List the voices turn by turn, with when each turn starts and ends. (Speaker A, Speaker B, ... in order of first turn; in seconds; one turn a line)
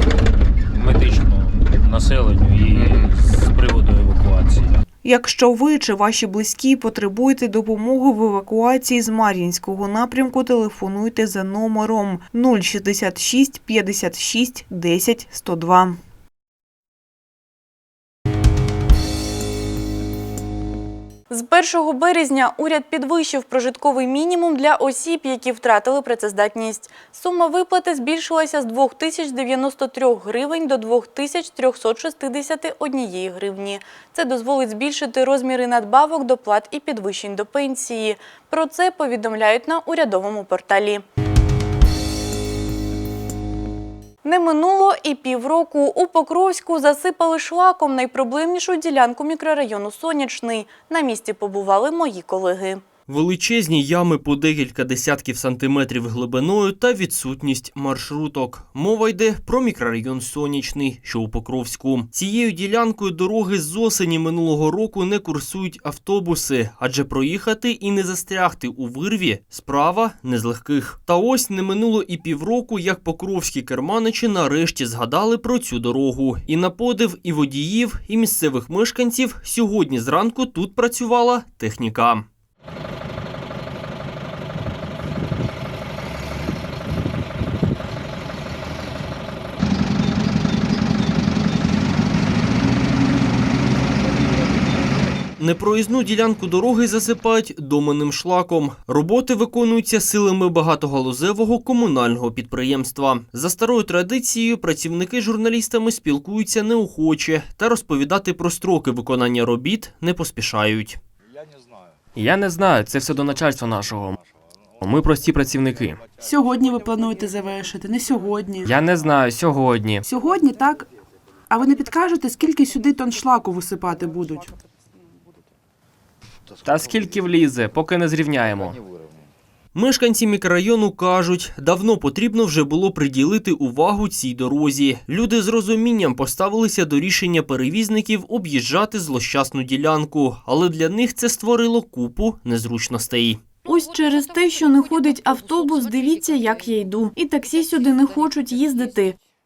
Speaker A: 0.7-4.8
Speaker B: 5.0-16.0
Speaker C: 21.3-41.0
Speaker C: 44.2-52.8
Speaker D: 53.1-82.3
Speaker D: 95.4-111.0
Speaker E: 112.2-114.2
Speaker E: 114.8-116.0
Speaker F: 116.2-118.7
Speaker E: 118.6-120.0
Speaker F: 120.1-120.9
Speaker F: 121.5-124.5
Speaker E: 126.6-128.8
Speaker D: 129.7-143.4
Speaker C: 143.7-149.2